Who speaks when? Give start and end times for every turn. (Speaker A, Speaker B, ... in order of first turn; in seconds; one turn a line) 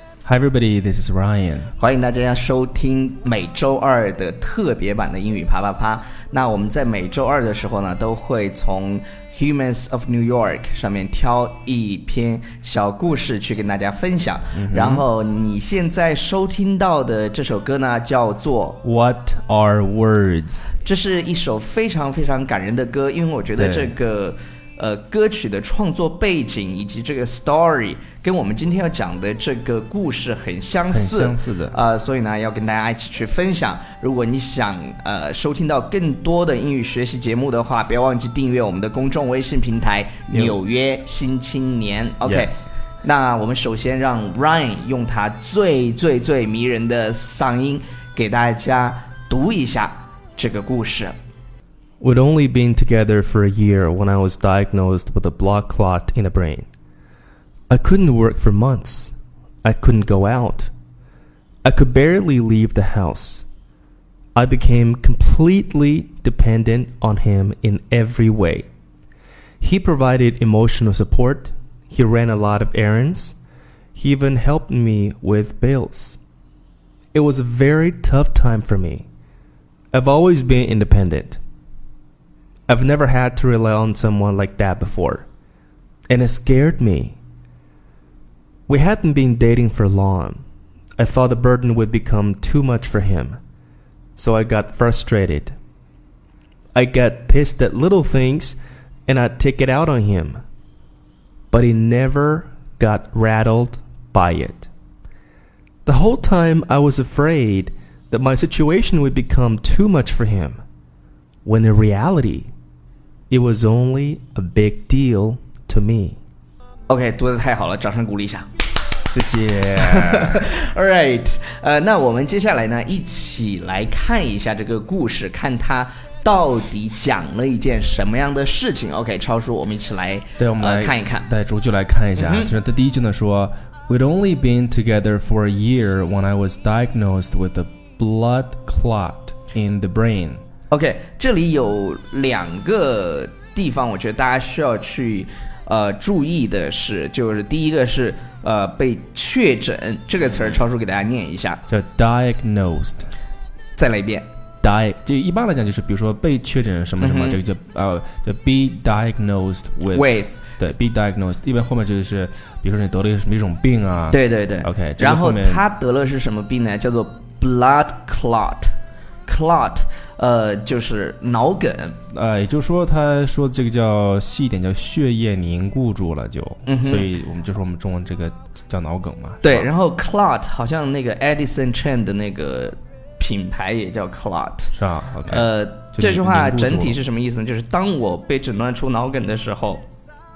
Speaker A: 0.2-1.7
Speaker B: 1.8-18.8
Speaker A: 14.5-15.0
Speaker A: 18.8-20.7
Speaker B: 20.8-51.1
Speaker A: 23.6-23.9
Speaker A: 30.9-31.8
Speaker A: 40.3-40.6
Speaker A: 42.2-42.7
Speaker A: 52.0-56.7
Speaker A: 57.7-60.7
Speaker A: 61.6-63.5
Speaker A: 64.3-68.7
Speaker A: 69.6-73.4
Speaker A: 73.9-76.2
Speaker A: 77.1-79.1
Speaker A: 79.9-81.4
Speaker A: 82.7-85.3
Speaker A: 86.1-87.2
Speaker A: 88.7-90.4
Speaker A: 91.0-93.4
Speaker A: 94.2-95.6
Speaker A: 96.7-100.4
Speaker A: 101.5-104.7
Speaker A: 105.8-110.6
Speaker A: 111.4-112.5
Speaker A: 113.3-116.2
Speaker B: 116.9-118.5
Speaker A: 119.0-120.5
Speaker B: 119.8-131.3
Speaker A: 130.4-140.4
Speaker B: 132.2-132.5
Speaker B: 140.7-151.6
Speaker A: 150.3-150.6
Speaker A: 151.7-153.1
Speaker B: 153.8-154.3
Speaker A: 154.6-165.6
Speaker B: 157.0-157.4
Speaker B: 159.9-160.4
Speaker B: 164.1-168.7
Speaker B: 169.2-172.0
Speaker A: 172.1-179.7
Speaker B: 176.7-177.1
Speaker B: 179.4-184.7
Speaker A: 184.7-187.0
Speaker B: 185.3-189.8